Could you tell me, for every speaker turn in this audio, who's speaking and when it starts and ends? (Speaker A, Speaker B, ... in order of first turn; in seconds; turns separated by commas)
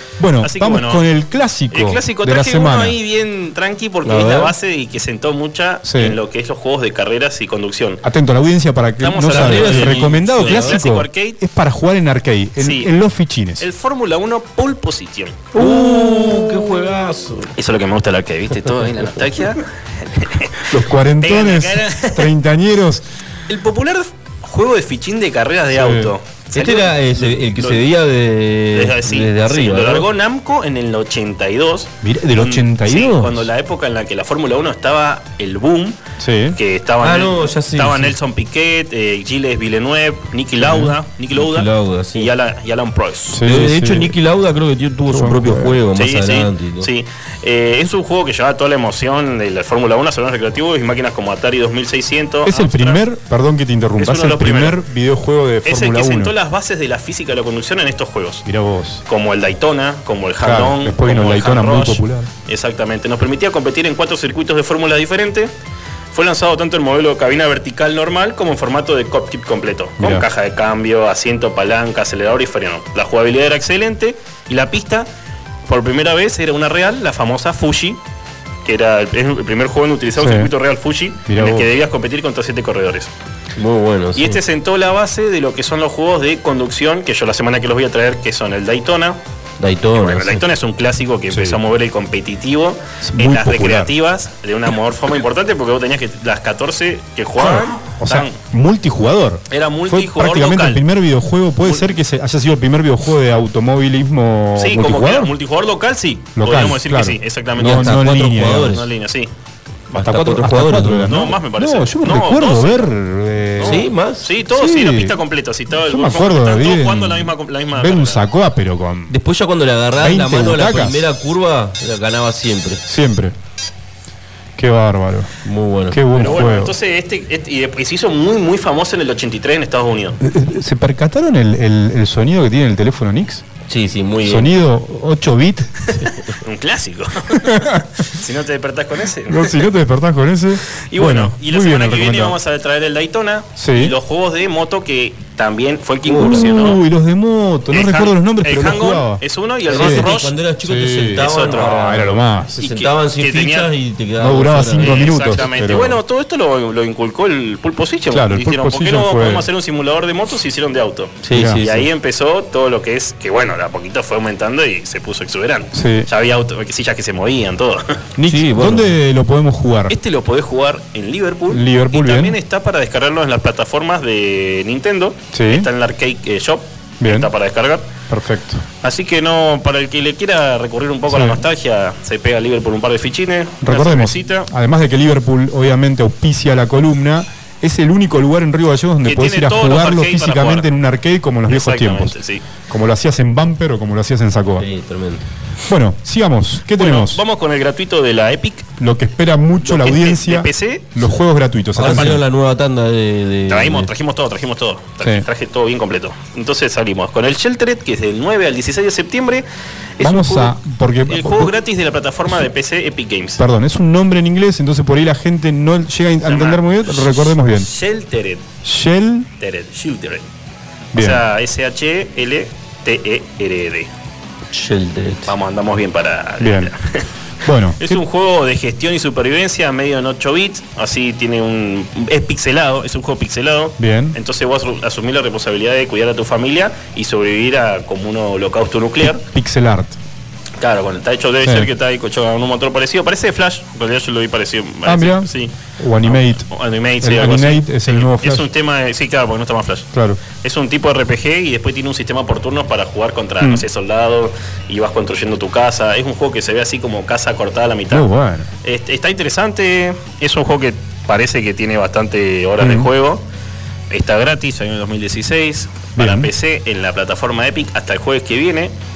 Speaker A: 0.2-3.0, Speaker B: 0.4-1.0, Speaker B: 1.7-8.0, Speaker C: 4.0-4.5, Speaker A: 5.8-6.2, Speaker A: 8.0-13.7, Speaker B: 9.0-11.4, Speaker C: 9.2-10.8, Speaker B: 12.6-12.9, Speaker B: 13.6-15.5, Speaker C: 15.5-17.5, Speaker A: 15.5-16.6, Speaker B: 17.5-22.3, Speaker A: 20.7-23.0, Speaker B: 23.5-27.8, Speaker A: 25.7-26.1, Speaker C: 26.5-30.1, Speaker B: 28.7-36.0, Speaker A: 32.0-33.4, Speaker A: 36.2-36.6, Speaker B: 36.5-43.4, Speaker C: 37.0-38.1, Speaker A: 40.6-40.9, Speaker C: 41.3-42.3, Speaker A: 43.3-44.1, Speaker C: 43.4-46.9, Speaker A: 45.1-45.8, Speaker B: 45.9-53.0, Speaker A: 52.4-56.3, Speaker B: 54.0-54.8, Speaker B: 55.6-58.4, Speaker A: 58.4-59.0, Speaker B: 59.0-65.5, Speaker A: 60.4-62.3, Speaker B: 66.1-75.1, Speaker A: 70.0-70.2, Speaker B: 75.7-78.0, Speaker B: 78.6-83.1, Speaker A: 80.2-80.5, Speaker A: 81.3-81.7, Speaker C: 83.6-84.4, Speaker B: 84.2-89.2, Speaker C: 89.6-90.4, Speaker B: 89.9-98.4, Speaker A: 91.3-91.6, Speaker A: 93.0-93.9, Speaker A: 97.4-105.3, Speaker B: 99.5-100.8, Speaker B: 101.6-101.9, Speaker B: 104.6-108.0, Speaker A: 106.3-108.8, Speaker C: 107.6-108.9, Speaker B: 108.6-109.3, Speaker C: 109.9-111.3, Speaker A: 110.0-113.8, Speaker B: 111.0-112.9, Speaker B: 113.6-118.2, Speaker C: 113.6-114.3, Speaker A: 114.5-115.2, Speaker A: 115.8-119.1, Speaker C: 119.1-122.8, Speaker A: 120.0-121.1, Speaker A: 122.9-123.3, Speaker A: 124.6-125.3, Speaker C: 125.4-126.4, Speaker A: 125.9-126.7, Speaker B: 126.1-130.2, Speaker A: 130.2-133.4, Speaker C: 133.7-134.5, Speaker A: 134.2-135.9, Speaker B: 136.0-139.7, Speaker A: 137.3-137.9, Speaker A: 139.2-142.4, Speaker B: 140.7-146.8, Speaker A: 143.6-143.9, Speaker C: 146.1-146.7, Speaker A: 146.2-149.2, Speaker B: 147.7-150.3, Speaker C: 149.7-155.4, Speaker A: 149.7-150.1, Speaker A: 150.6-152.6, Speaker B: 151.2-151.9, Speaker B: 152.6-153.7, Speaker A: 154.2-156.0, Speaker B: 154.8-168.0, Speaker A: 158.1-159.5, Speaker C: 161.2-161.9, Speaker A: 161.3-161.6, Speaker A: 165.7-166.1, Speaker A: 168.2-169.9, Speaker C: 168.3-168.9, Speaker B: 169.9-177.9, Speaker A: 171.5-172.4, Speaker A: 175.3-175.7, Speaker A: 177.0-177.3, Speaker A: 178.1-178.6, Speaker B: 178.8-184.5, Speaker A: 181.1-181.4, Speaker A: 183.6-192.2, Speaker B: 189.0-190.7, Speaker B: 191.5-192.4, Speaker A: 192.7-194.7, Speaker C: 194.6-195.2, Speaker A: 195.7-197.2, Speaker B: 196.7-198.7, Speaker A: 198.8-202.2, Speaker B: 199.6-201.0, Speaker C: 201.8-203.9, Speaker B: 201.8-202.1, Speaker B: 203.5-213.4, Speaker A: 205.0-205.2, Speaker A: 210.0-211.5, Speaker A: 213.4-217.7, Speaker B: 216.2-218.4, Speaker A: 218.6-219.3, Speaker B: 219.4-220.2, Speaker A: 220.9-221.2, Speaker B: 220.9-223.9, Speaker C: 224.5-225.3, Speaker B: 225.2-227.1, Speaker A: 226.4-226.7, Speaker A: 227.4-228.0, Speaker B: 227.8-239.2, Speaker A: 233.8-234.2, Speaker A: 239.0-240.0, Speaker B: 240.6-245.5, Speaker A: 241.4-241.7, Speaker A: 244.8-246.5, Speaker B: 246.0-258.1, Speaker A: 247.0-248.5, Speaker A: 249.9-250.2, Speaker A: 253.4-253.6, Speaker A: 257.9-258.5, Speaker B: 258.6-263.2, Speaker A: 262.6-262.9, Speaker B: 263.9-268.7, Speaker A: 265.9-266.3